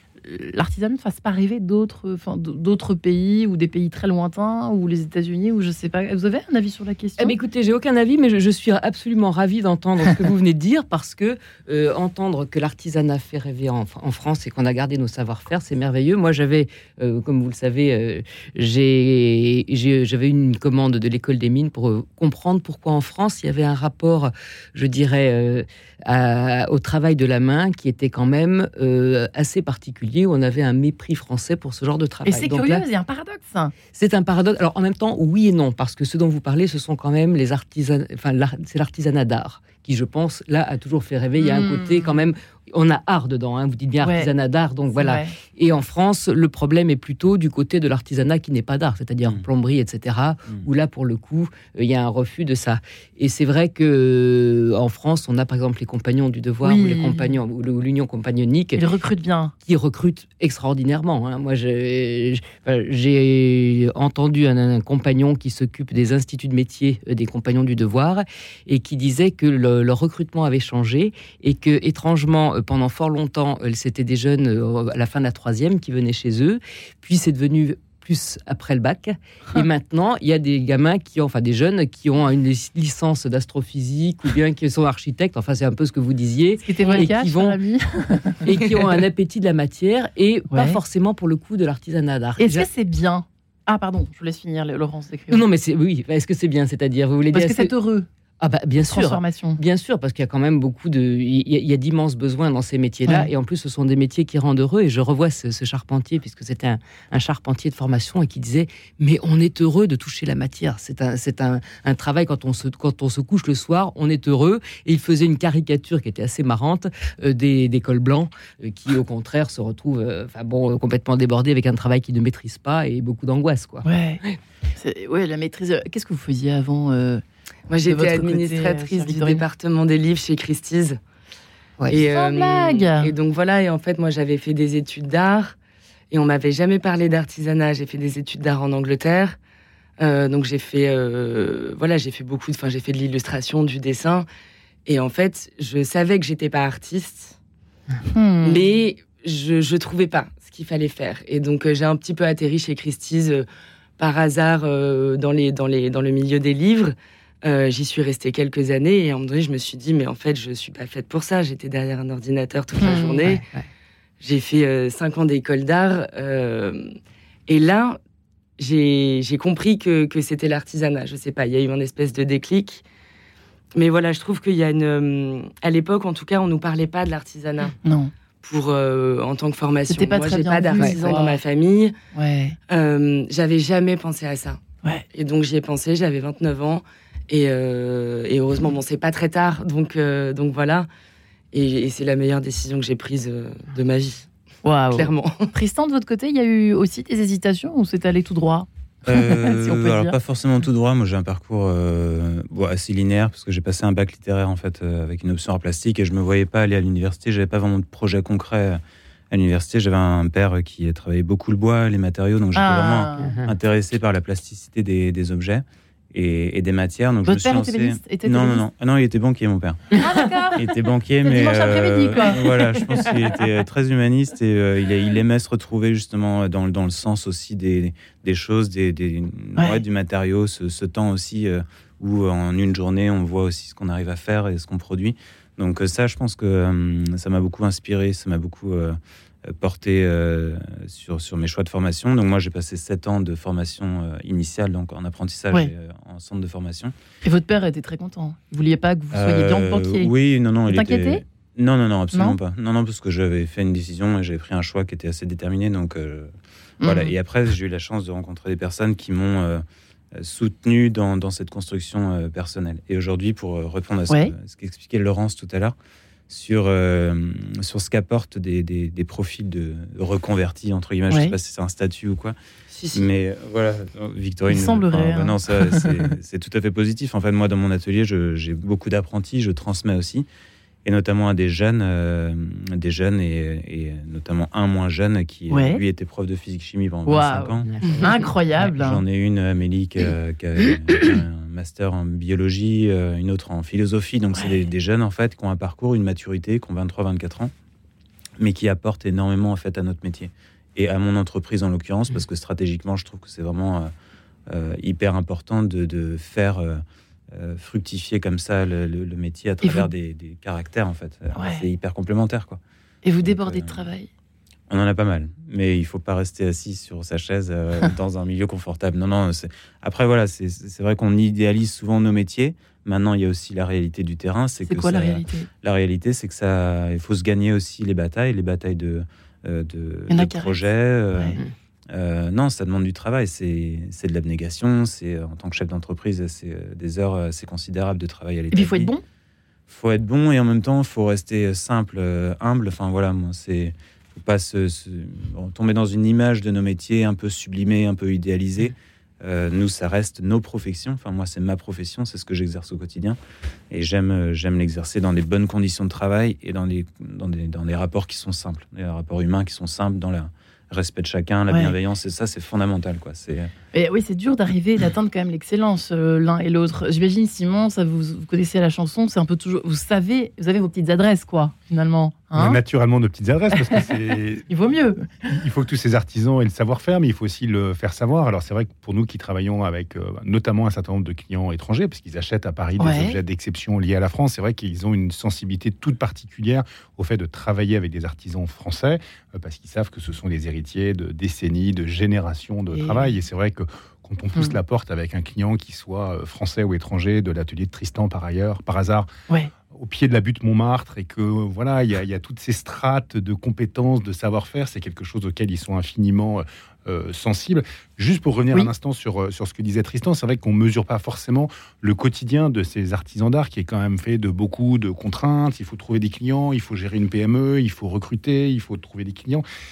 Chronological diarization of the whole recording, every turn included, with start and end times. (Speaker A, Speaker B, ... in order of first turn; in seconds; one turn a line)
Speaker A: 0.2-7.3
Speaker B: 7.2-32.9
Speaker A: 32.2-33.7
Speaker B: 33.9-58.9
Speaker A: 41.4-42.1
Speaker A: 44.0-44.3
Speaker A: 44.9-45.3
Speaker A: 56.6-57.3
Speaker A: 58.8-59.5
Speaker B: 59.6-87.6
Speaker A: 86.6-88.6
Speaker B: 88.4-92.7
Speaker A: 90.5-90.8
Speaker A: 92.4-95.4
Speaker B: 95.3-97.7
Speaker A: 97.3-98.1
Speaker B: 98.4-124.4
Speaker A: 98.9-99.6
Speaker A: 123.8-124.2
Speaker A: 124.8-127.2
Speaker C: 127.7-131.0
Speaker A: 127.8-129.4
Speaker C: 131.9-135.6
Speaker A: 131.9-133.1
Speaker C: 136.1-139.4
Speaker C: 140.0-144.2
Speaker C: 144.9-147.3
Speaker A: 148.1-148.6
Speaker C: 148.4-153.5
Speaker C: 154.0-163.4
Speaker A: 162.8-163.2
Speaker B: 163.2-163.7
Speaker C: 164.2-166.9
Speaker C: 167.5-168.0
Speaker C: 168.6-172.8
Speaker C: 173.8-177.8
Speaker A: 177.8-178.1
Speaker C: 178.4-182.0
Speaker A: 179.9-181.4
Speaker A: 182.1-182.6
Speaker C: 182.7-184.6
Speaker C: 185.1-190.9
Speaker C: 191.5-194.3
Speaker A: 194.6-200.2
Speaker C: 194.9-195.5
Speaker D: 199.1-220.0
Speaker A: 212.6-213.3
Speaker B: 213.2-213.5
Speaker A: 217.2-218.6
Speaker A: 220.0-220.7
Speaker D: 220.6-246.9
Speaker A: 221.2-223.1
Speaker A: 247.2-250.1
Speaker D: 249.1-259.6
Speaker A: 250.7-251.2
Speaker A: 256.8-257.1
Speaker D: 260.1-265.8
Speaker D: 266.3-272.4
Speaker C: 272.7-273.1
Speaker D: 272.9-280.3
Speaker A: 274.5-275.9
Speaker D: 280.9-287.7
Speaker A: 285.5-285.8
Speaker A: 287.1-289.0
Speaker B: 287.7-288.7
Speaker D: 288.6-297.5
Speaker D: 298.4-303.9
Speaker D: 304.5-312.6
Speaker A: 309.6-309.9
Speaker A: 311.4-311.6
Speaker A: 313.0-314.1
Speaker D: 313.2-313.9
Speaker D: 314.7-331.4
Speaker A: 324.7-325.5
Speaker A: 330.1-330.5
Speaker D: 331.9-338.9
Speaker A: 338.5-339.0
Speaker D: 339.7-353.2
Speaker D: 353.7-363.5
Speaker A: 361.5-361.8
Speaker A: 363.7-372.6
Speaker E: 372.4-374.5
Speaker A: 374.5-375.2
Speaker E: 375.3-399.1
Speaker A: 382.8-383.2
Speaker A: 392.7-393.1
Speaker E: 399.7-419.4